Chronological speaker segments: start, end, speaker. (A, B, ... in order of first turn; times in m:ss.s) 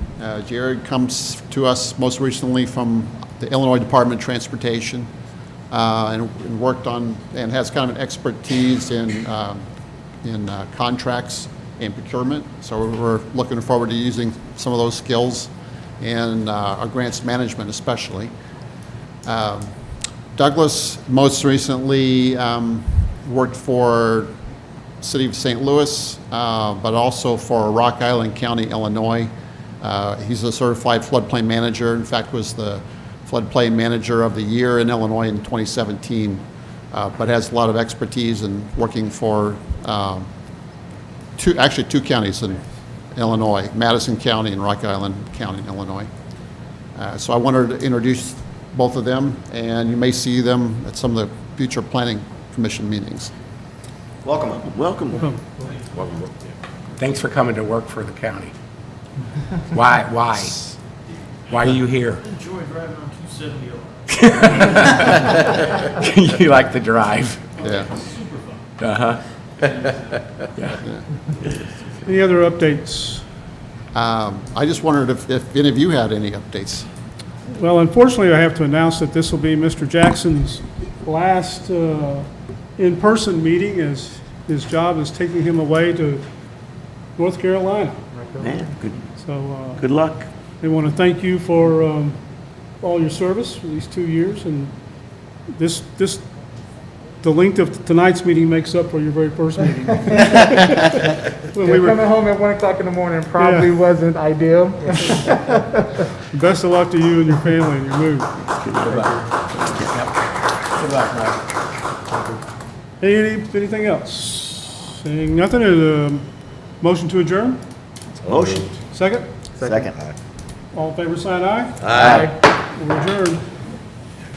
0:00.2-0:05.1 A
0:05.7-0:09.6 A
0:10.2-0:18.3 A
0:19.3-0:19.7 A
0:20.4-0:24.3 A
0:25.0-0:29.3 A
0:29.8-0:40.3 A
0:41.4-0:42.6 A
0:43.2-0:46.1 A
0:47.0-0:53.3 A
0:54.2-0:55.3 B
0:55.6-0:56.2 C
0:55.9-0:56.3 B
0:57.0-0:58.5 D
0:59.7-1:00.6 D
1:01.5-1:02.2 D
1:02.2-1:04.9 C
1:04.2-1:07.4 D
1:07.6-1:08.6 C
1:07.6-1:07.9 A
1:08.8-1:09.2 D
1:09.6-1:10.2 C
1:12.0-1:13.2 E
1:13.9-1:16.9 A
1:17.5-1:26.2 E
1:27.2-1:28.0 E
1:28.2-1:28.6 F
1:28.4-1:29.0 B
1:29.2-1:29.9 E
1:29.8-1:30.3 B
1:30.6-1:32.2 E
1:32.8-1:34.7 E
1:35.5-1:36.3 E
1:37.2-1:41.0 E
1:41.5-1:42.0 E
1:41.6-1:46.0 F
1:43.4-1:43.7 E
1:46.3-1:48.3 E
1:48.7-1:49.0 B
1:50.8-1:51.3 D
1:53.0-1:56.3 E
1:56.8-1:57.6 E
1:58.2-1:58.7 B
1:58.9-1:59.3 E
1:59.6-1:59.9 F
1:59.6-2:00.2 B
2:00.7-2:03.4 E
2:01.8-2:02.4 B
2:01.9-2:02.3 F